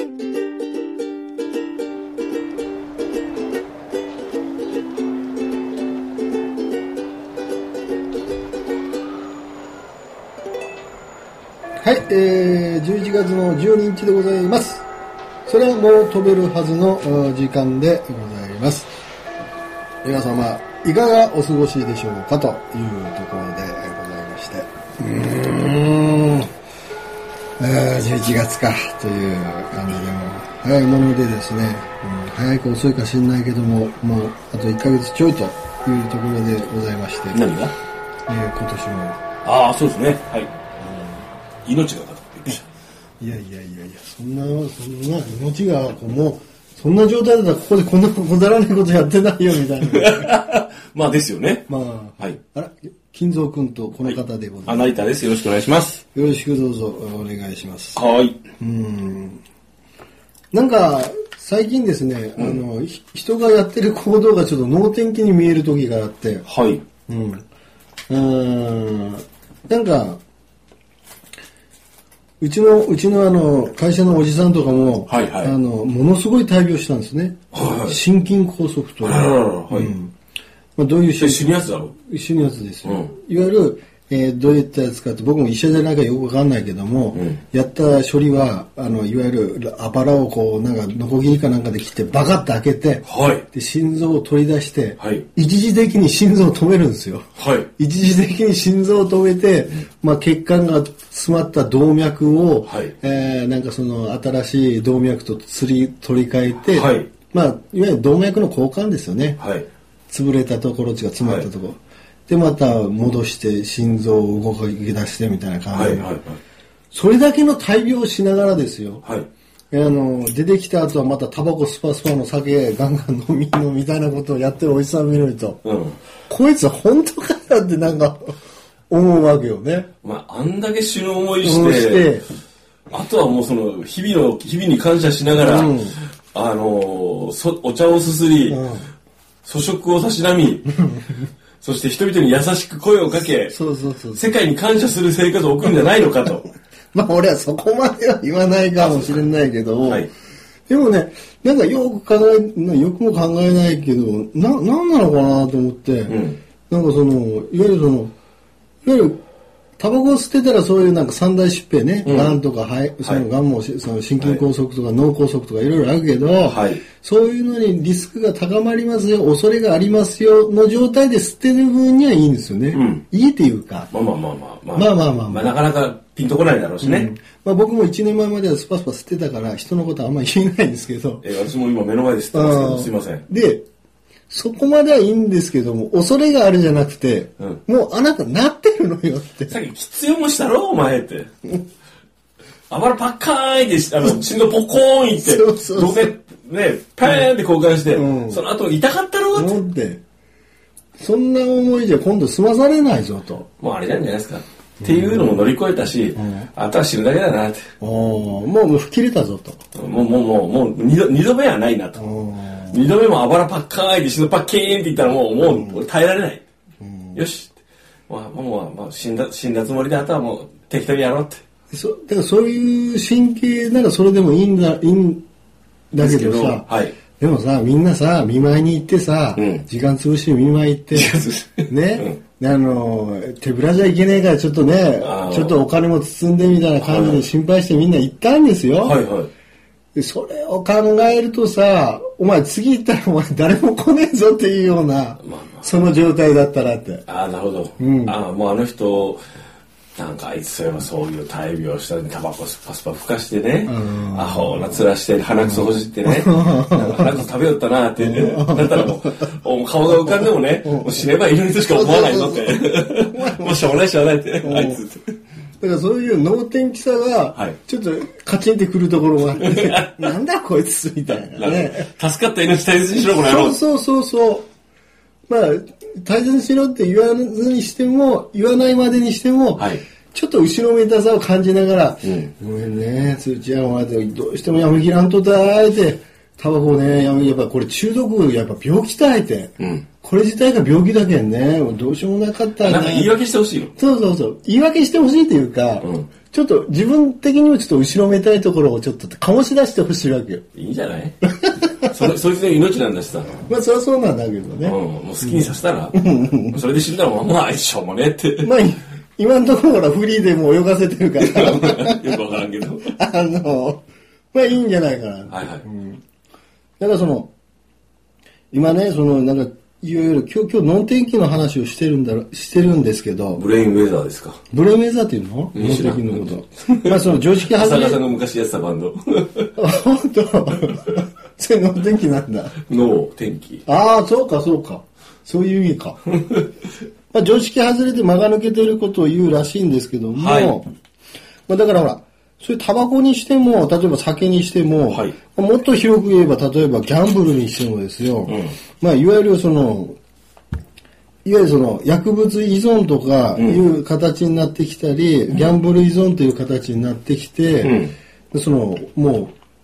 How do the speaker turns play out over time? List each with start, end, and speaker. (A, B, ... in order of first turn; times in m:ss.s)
0:11.8-0:14.8 A
0:15.4-0:18.9 A
0:20.0-0:26.5 A
0:27.6-0:37.4 A
0:37.3-0:37.7 B
0:38.3-0:39.2 A
0:39.4-0:40.5 B
0:40.8-0:41.2 A
0:41.6-0:42.6 B
0:43.2-0:50.4 A
0:49.8-0:52.4 B
0:51.7-0:54.9 A
0:54.0-0:56.0 B
0:56.1-0:58.0 A
0:57.9-0:58.4 B
0:58.6-0:59.4 A
1:00.5-1:06.4 A
1:06.4-1:06.8 B
1:07.1-1:07.4 A
1:08.1-1:10.2 A
1:12.4-1:20.1 A
1:15.1-1:15.6 B
1:17.5-1:18.0 B
1:19.0-1:19.9 B
1:20.8-1:37.2 A
1:21.2-1:21.9 B
1:22.8-1:23.1 B
1:27.1-1:27.4 B
1:33.0-1:33.4 B
1:35.0-1:35.2 B
1:37.4-1:37.7 B
1:37.8-1:49.4 A
1:42.6-1:42.9 B
1:46.6-1:47.1 B
1:49.4-1:49.6 B
1:50.1-1:51.8 A
1:51.2-1:51.5 B
1:52.3-1:56.2 A
1:55.7-1:56.4 B
1:56.9-1:59.0 A
1:59.0-1:59.3 B
1:59.7-2:05.6 A
2:05.6-2:06.0 B
2:06.3-2:08.3 A
2:08.9-2:09.9 A
2:10.0-2:12.1 B
2:11.4-2:12.3 A
2:12.9-2:18.6 B
2:15.4-2:16.0 A
2:18.5-2:18.9 A
2:19.4-2:20.8 B
2:21.6-2:23.6 B
2:23.4-2:24.3 A
2:24.1-2:26.5 B
2:26.9-2:30.1 A
2:28.8-2:29.3 B
2:30.7-2:38.1 A
2:36.1-2:36.4 B
2:38.8-2:39.2 A
2:39.8-2:53.9 A
2:42.0-2:42.4 B
2:46.4-2:46.8 B
2:52.7-2:53.0 B
2:53.9-2:57.1 B
2:54.7-2:55.5 A
2:56.8-3:01.2 A
3:01.2-3:03.2 B
3:02.3-3:03.6 A
3:04.3-3:09.6 A
3:09.5-3:11.3 B
3:12.7-3:19.6 B
3:15.2-3:16.1 A
3:17.9-3:18.4 A
3:19.3-3:20.0 A
3:21.0-3:23.5 A
3:23.6-3:27.6 B
3:24.8-3:25.3 A
3:26.2-3:26.5 A
3:27.8-3:29.6 A
3:29.7-3:32.1 B
3:32.0-3:32.8 A
3:32.7-3:36.4 B
3:35.4-3:35.8 A
3:36.8-3:37.2 A
3:37.1-3:37.6 B
3:38.1-3:41.4 B
3:41.7-3:45.2 A
3:45.9-3:59.0 A
3:46.0-3:47.0 B
3:49.3-3:49.7 B
3:50.9-3:52.2 B
3:55.0-3:55.6 B
3:56.8-3:57.3 B
3:58.8-3:59.3 B
3:59.9-4:07.0 A
4:05.2-4:05.7 B
4:07.0-4:09.2 B
4:07.8-4:08.2 A
4:10.0-4:25.1 B
4:13.6-4:14.8 A
4:15.4-4:17.2 A
4:18.0-4:19.4 A
4:19.9-4:21.0 A
4:21.6-4:23.8 A
4:24.4-4:24.8 A
4:25.6-4:31.9 A
4:29.4-4:30.1 B
4:31.2-4:33.6 B
4:33.1-4:34.4 A
4:35.3-4:53.2 A
4:39.6-4:39.8 B
4:42.0-4:42.3 B
4:49.6-4:49.9 B
4:52.6-4:53.7 B
4:53.8-5:00.4 A
4:55.8-4:56.1 B
5:00.5-5:01.2 B
5:01.8-5:03.4 B
5:03.5-5:06.6 A
5:04.6-5:08.5 B
5:08.4-5:12.2 A
5:11.2-5:12.9 B
5:12.8-5:16.0 A
5:15.3-5:15.6 B
5:16.8-5:17.3 A
5:18.5-5:23.4 A
5:23.3-5:24.4 B
5:24.5-5:28.0 A
5:25.5-5:29.5 B
5:29.6-5:32.6 A
5:32.6-5:33.6 B
5:33.6-5:36.0 A
5:37.1-5:40.7 A
5:40.1-5:40.6 B
5:41.5-5:50.0 A
5:44.9-5:45.1 B
5:48.3-5:48.6 B
5:51.2-5:59.3 A
5:53.4-5:53.6 B
5:57.6-5:57.9 B